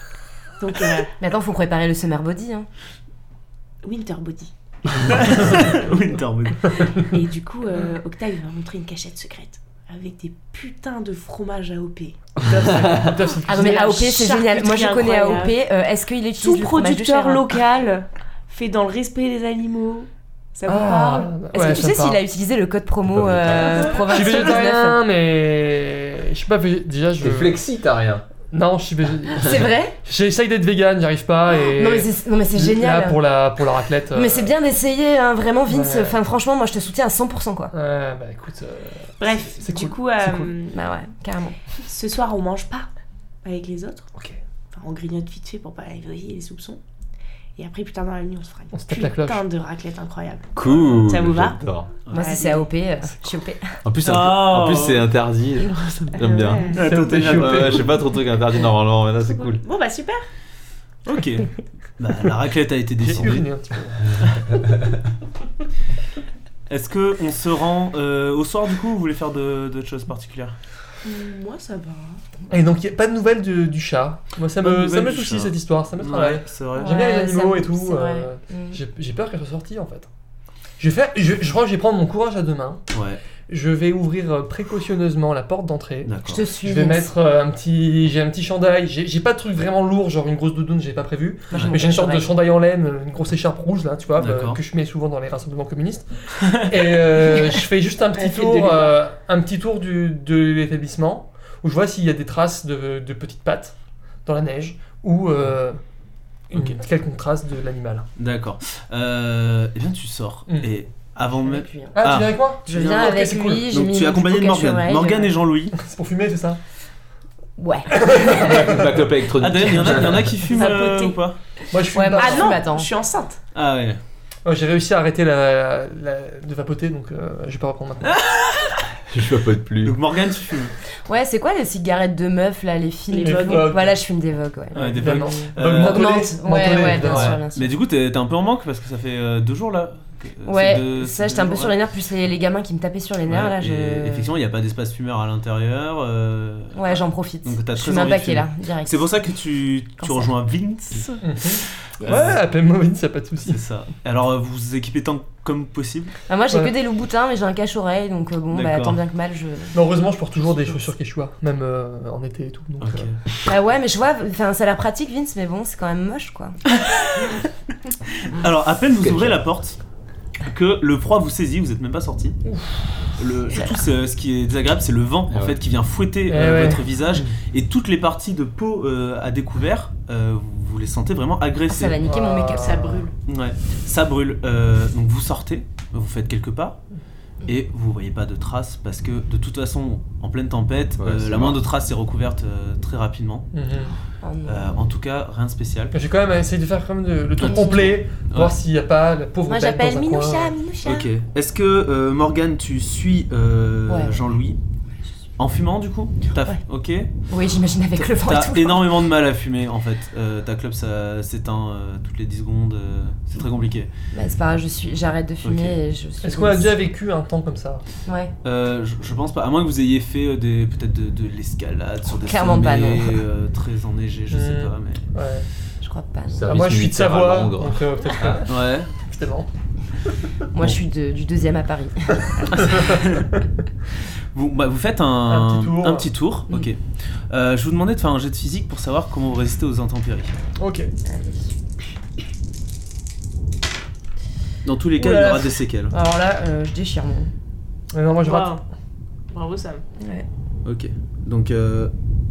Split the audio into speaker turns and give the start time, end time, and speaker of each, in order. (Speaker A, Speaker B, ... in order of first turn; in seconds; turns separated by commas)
Speaker A: 0.6-1.1, Speaker B: 1.2-2.7, Speaker A: 3.8-5.1, Speaker C: 5.0-7.0, Speaker A: 7.1-12.3, Speaker D: 12.4-14.0, Speaker E: 12.8-13.1, Speaker A: 13.4-15.6, Speaker B: 13.4-17.5, Speaker A: 16.4-21.9, Speaker B: 20.7-25.0, Speaker D: 20.7-22.2, Speaker E: 23.1-23.9, Speaker D: 23.6-27.6, Speaker E: 27.2-28.3, Speaker D: 28.5-34.5, Speaker B: 29.4-30.0, Speaker B: 31.6-33.2, Speaker B: 34.1-37.7, Speaker D: 35.7-36.2, Speaker D: 37.7-40.5, Speaker A: 39.2-40.8, Speaker B: 40.7-41.6, Speaker A: 41.8-42.9, Speaker A: 43.4-44.1, Speaker A: 44.7-46.8, Speaker A: 47.6-51.6, Speaker D: 48.7-49.4, Speaker E: 50.5-51.9, Speaker C: 52.1-52.4, Speaker B: 52.1-53.8, Speaker A: 52.1-52.7, Speaker E: 53.9-59.6, Speaker C: 54.0-55.0, Speaker A: 56.1-56.8, Speaker C: 56.7-57.9, Speaker D: 56.8-57.9, Speaker A: 59.2-60.2, Speaker C: 61.1-63.5, Speaker D: 63.0-64.2, Speaker E: 64.6-65.0, Speaker C: 66.7-70.6, Speaker A: 71.0-72.2, Speaker D: 72.5-80.1, Speaker C: 74.6-77.0, Speaker B: 76.8-78.8, Speaker D: 80.8-82.8, Speaker C: 82.9-83.2, Speaker D: 83.5-105.8, Speaker C: 86.1-86.4, Speaker B: 86.3-87.1, Speaker C: 91.5-91.9, Speaker B: 91.5-92.3, Speaker C: 94.2-94.6, Speaker C: 96.4-96.7, Speaker A: 98.1-99.0, Speaker D: 106.5-108.1, Speaker C: 108.2-115.8, Speaker B: 111.5-112.0, Speaker D: 112.0-113.7, Speaker B: 112.7-115.3, Speaker D: 115.7-116.6, Speaker B: 117.6-118.9, Speaker D: 118.0-118.8, Speaker E: 118.4-120.3, Speaker C: 119.3-121.4, Speaker A: 120.4-121.2, Speaker D: 121.7-122.6, Speaker B: 121.9-122.9, Speaker A: 122.2-123.4, Speaker C: 123.5-124.0, Speaker D: 124.5-128.2, Speaker C: 128.0-128.9, Speaker E: 129.1-130.0, Speaker C: 129.8-130.7, Speaker B: 131.1-137.7, Speaker A: 133.1-133.8, Speaker D: 133.2-133.9, Speaker D: 134.7-137.4, Speaker C: 134.7-141.8, Speaker B: 140.4-144.3, Speaker C: 143.3-152.4, Speaker B: 146.7-149.1, Speaker B: 150.0-150.3, Speaker D: 151.2-153.6, Speaker C: 153.4-156.2, Speaker B: 156.3-159.8, Speaker C: 158.5-159.0, Speaker D: 159.7-163.1, Speaker C: 162.8-163.2, Speaker B: 163.4-166.6, Speaker C: 166.7-167.5, Speaker C: 168.2-169.8, Speaker E: 169.0-169.4, Speaker C: 170.4-172.4, Speaker D: 172.5-173.0, Speaker C: 173.2-182.0, Speaker B: 173.5-173.8, Speaker E: 175.3-175.6, Speaker D: 176.3-177.2, Speaker B: 181.7-183.1, Speaker D: 182.0-182.9, Speaker A: 182.6-183.1, Speaker C: 183.3-186.8, Speaker C: 187.4-193.5, Speaker E: 191.0-191.6, Speaker D: 193.5-193.9, Speaker B: 194.2-194.8, Speaker C: 194.5-196.0, Speaker D: 195.9-200.6, Speaker B: 197.4-198.0, Speaker C: 197.4-198.6, Speaker B: 199.5-201.1, Speaker C: 200.8-204.6, Speaker B: 203.9-204.2, Speaker C: 205.4-207.1, Speaker B: 207.3-208.9, Speaker C: 208.0-213.9, Speaker B: 214.1-216.8, Speaker C: 215.4-215.8, Speaker D: 216.2-217.8, Speaker B: 218.1-218.3, Speaker C: 218.4-225.0, Speaker B: 222.1-223.2, Speaker D: 224.3-225.5, Speaker B: 225.8-226.4, Speaker E: 226.3-227.8, Speaker D: 226.4-229.5, Speaker C: 228.3-228.9, Speaker B: 230.5-232.5, Speaker C: 232.5-233.3, Speaker C: 234.3-240.3, Speaker D: 235.3-236.1, Speaker D: 240.6-240.9, Speaker B: 241.1-241.5, Speaker C: 244.6-245.9, Speaker B: 245.0-247.3, Speaker D: 247.9-248.6, Speaker A: 248.2-248.6, Speaker A: 249.3-249.8, Speaker B: 250.0-250.3, Speaker C: 250.7-251.9